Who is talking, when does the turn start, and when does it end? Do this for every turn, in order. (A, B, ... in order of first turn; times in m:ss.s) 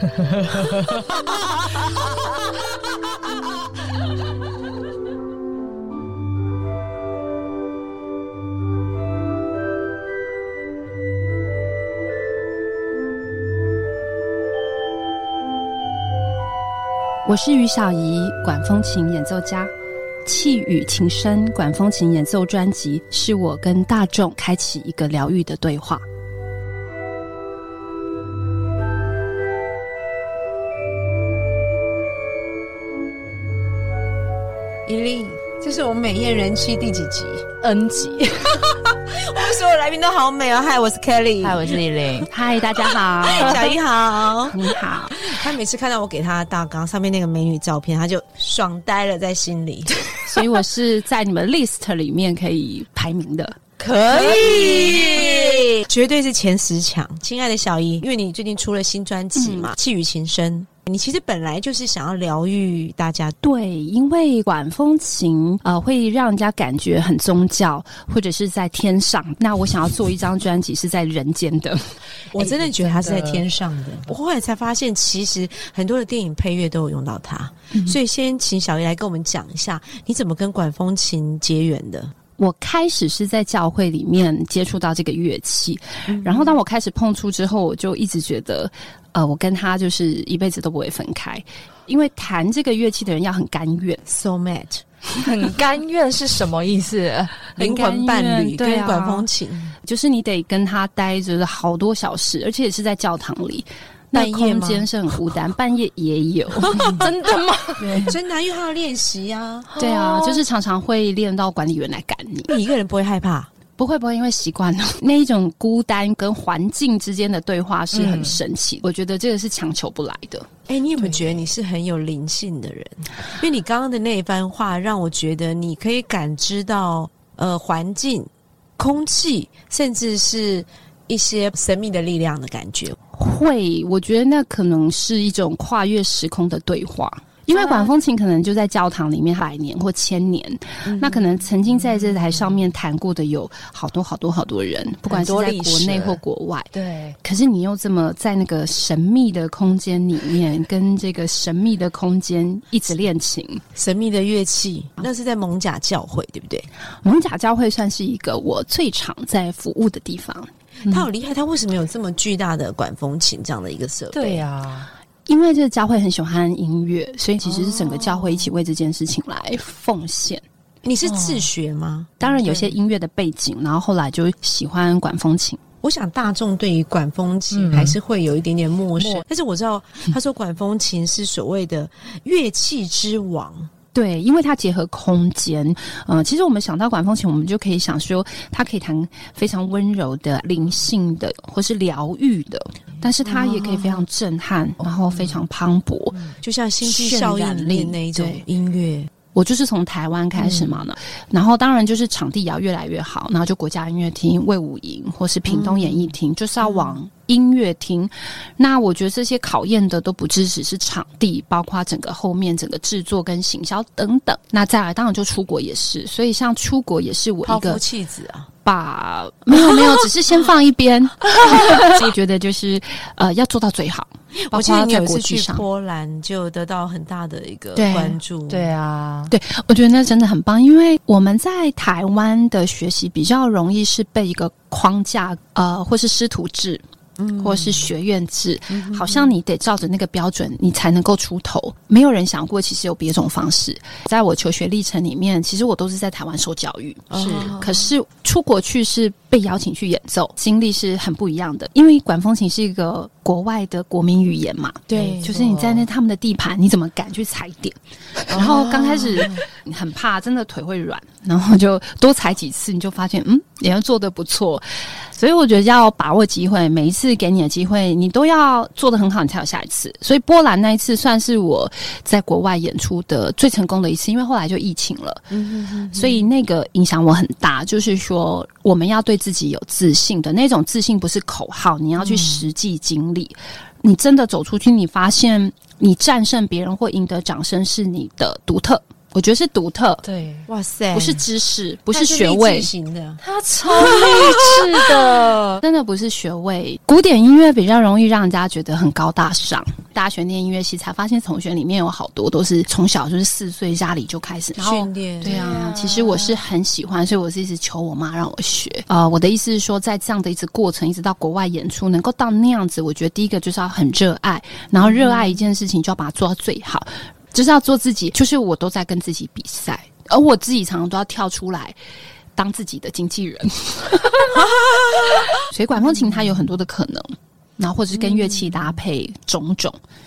0:00.4-0:00.8 A
0:00.9-0:01.8 B
0:17.2-0:19.7 C
0:20.2-0:26.0 C
0:34.9-0:37.5 B
0:37.6-0:39.0 A
0:39.1-0:41.8 B
0:41.4-0:42.3 A
0:42.3-0:43.8 C
0:43.2-0:49.9 B
0:44.4-0:45.3 C
0:50.2-0:53.6 C
0:53.8-1:03.4 B
0:53.9-0:55.7 A
0:59.4-0:59.7 C
1:03.4-1:11.9 C
1:12.3-1:22.1 B
1:12.3-1:13.5 A
1:22.4-1:34.0 C
1:26.1-1:26.6 B
1:34.1-1:34.8 B
1:35.2-1:37.5 A
1:37.6-1:39.3 C
1:37.6-1:39.8 B
1:39.8-1:47.0 C
1:44.1-1:44.9 B
1:46.6-1:47.3 B
1:46.8-1:48.0 A
1:47.8-1:48.2 C
1:47.9-1:49.7 B
1:49.7-1:50.4 A
1:49.8-1:52.5 C
1:52.5-1:53.5 B
1:53.8-2:00.5 C
1:57.9-1:58.4 A
2:00.7-2:13.0 B
2:13.1-2:33.6 C
2:20.8-2:21.3 B
2:25.1-2:26.2 A
2:26.7-2:27.2 A
2:33.8-2:36.7 B
2:37.0-2:41.1 C
2:40.9-2:44.4 B
2:44.1-2:44.9 A
2:45.3-2:50.4 C
2:47.4-2:48.5 B
2:50.8-2:52.2 B
2:51.1-2:51.5 A
2:52.2-2:55.6 C
2:55.8-3:03.7 B
2:57.5-2:58.0 A
2:59.0-2:59.2 A
3:03.9-3:18.4 C
3:13.3-3:13.8 B
3:16.2-3:19.1 B
3:19.3-3:37.8 C
3:20.4-3:20.8 A
3:25.5-3:26.1 B
3:26.6-3:27.0 B
3:37.5-3:38.5 B
3:38.6-3:45.6 C
3:44.5-3:48.7 B
3:47.8-3:48.2 C
3:48.5-3:49.3 A
3:49.3-3:56.8 C
3:57.2-3:57.9 B
3:57.4-4:35.3 C
3:58.7-3:59.3 B
4:07.1-4:07.9 B
4:14.9-4:15.4 B
4:14.9-4:15.8 A
4:18.3-4:19.4 B
4:35.3-4:36.3 B
4:35.9-4:50.0 C
4:50.0-4:50.5 A
4:50.5-4:51.2 B
4:50.9-4:52.7 C
4:51.9-4:55.1 B
4:53.2-4:55.6 A
4:55.6-5:21.8 C
5:04.6-5:05.4 B
5:05.2-5:06.4 A
5:14.8-5:15.3 B
5:22.4-5:24.4 C
5:24.3-5:25.3 B
5:25.3-5:29.8 C
5:28.0-5:28.6 B